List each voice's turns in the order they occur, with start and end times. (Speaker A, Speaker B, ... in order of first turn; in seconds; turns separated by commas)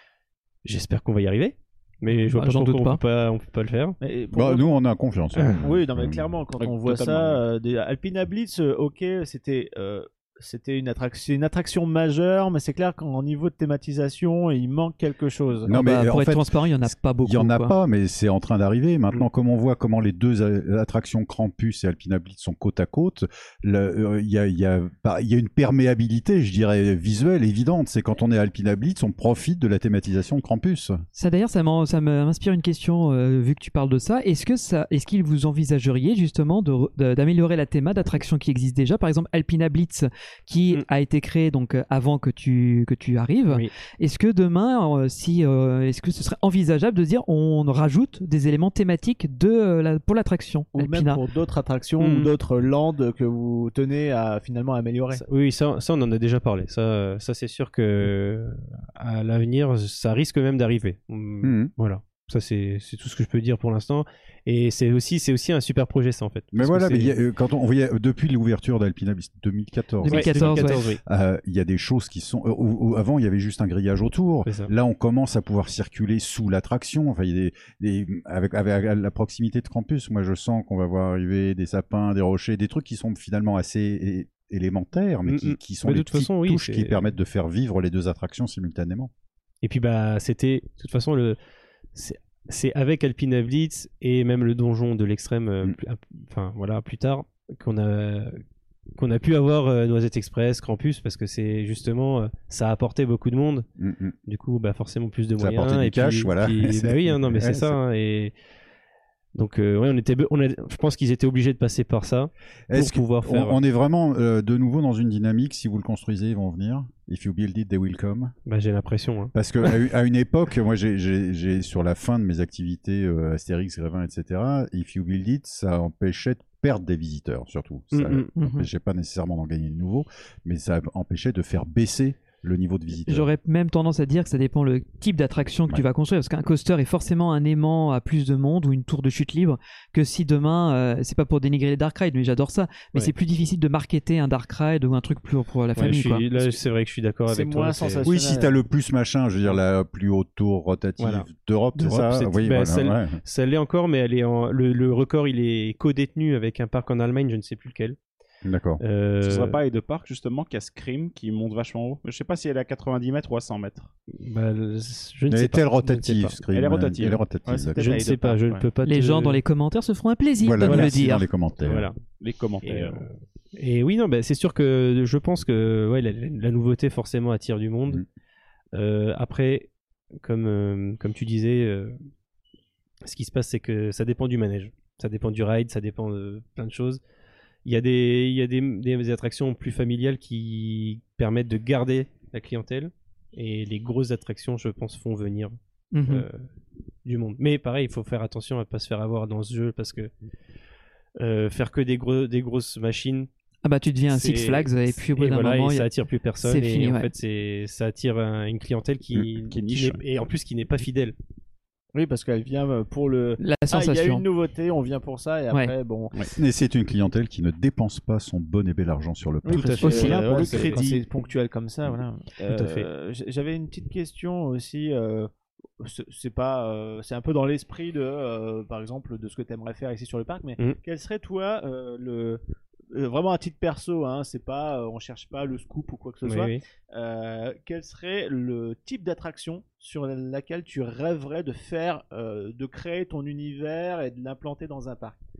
Speaker A: 0.6-4.0, Speaker B: 2.1-3.0, Speaker C: 4.0-4.7, Speaker D: 4.3-6.3, Speaker A: 5.3-5.6, Speaker C: 5.6-15.7, Speaker E: 6.6-7.4, Speaker D: 15.7-31.0, Speaker B: 15.7-17.7, Speaker B: 31.1-51.2, Speaker C: 50.7-55.2, Speaker A: 52.0-52.3, Speaker A: 55.1-67.1, Speaker D: 61.4-61.7, Speaker D: 66.5-89.1, Speaker B: 70.0-70.8, Speaker A: 70.1-71.0, Speaker A: 74.5-74.7, Speaker A: 85.3-87.1, Speaker A: 89.6-91.4, Speaker A: 91.9-98.4, Speaker A: 99.0-103.7, Speaker D: 103.8-104.1, Speaker A: 104.3-108.3, Speaker D: 105.4-107.8, Speaker A: 109.3-113.6, Speaker D: 112.7-118.3, Speaker A: 118.5-119.8, Speaker D: 119.3-133.3, Speaker A: 127.9-128.3, Speaker B: 128.4-128.7, Speaker B: 133.1-146.2, Speaker A: 145.8-148.1, Speaker C: 147.3-148.5, Speaker D: 148.0-153.2, Speaker A: 151.0-158.0, Speaker D: 158.4-158.8, Speaker A: 158.8-159.6, Speaker E: 159.2-163.9, Speaker A: 164.1-166.4, Speaker D: 165.3-168.1, Speaker E: 166.5-167.3, Speaker C: 167.4-168.6, Speaker A: 167.8-169.4, Speaker B: 168.9-171.2, Speaker D: 170.4-171.9, Speaker A: 170.6-170.9, Speaker A: 171.6-172.0, Speaker E: 172.2-173.0, Speaker A: 172.6-178.0, Speaker A: 178.7-179.7, Speaker A: 180.2-181.9, Speaker A: 183.0-187.0, Speaker A: 187.6-195.5, Speaker B: 195.9-196.2, Speaker A: 196.1-196.4, Speaker A: 197.0-200.1, Speaker A: 201.2-203.3, Speaker B: 203.6-205.8, Speaker A: 204.1-211.2, Speaker B: 206.4-207.1, Speaker E: 209.4-210.0, Speaker C: 211.9-216.2, Speaker B: 213.4-214.2, Speaker D: 216.4-220.2, Speaker C: 219.4-245.2, Speaker A: 219.5-221.0, Speaker B: 219.8-220.6, Speaker A: 222.5-222.9, Speaker A: 236.2-236.6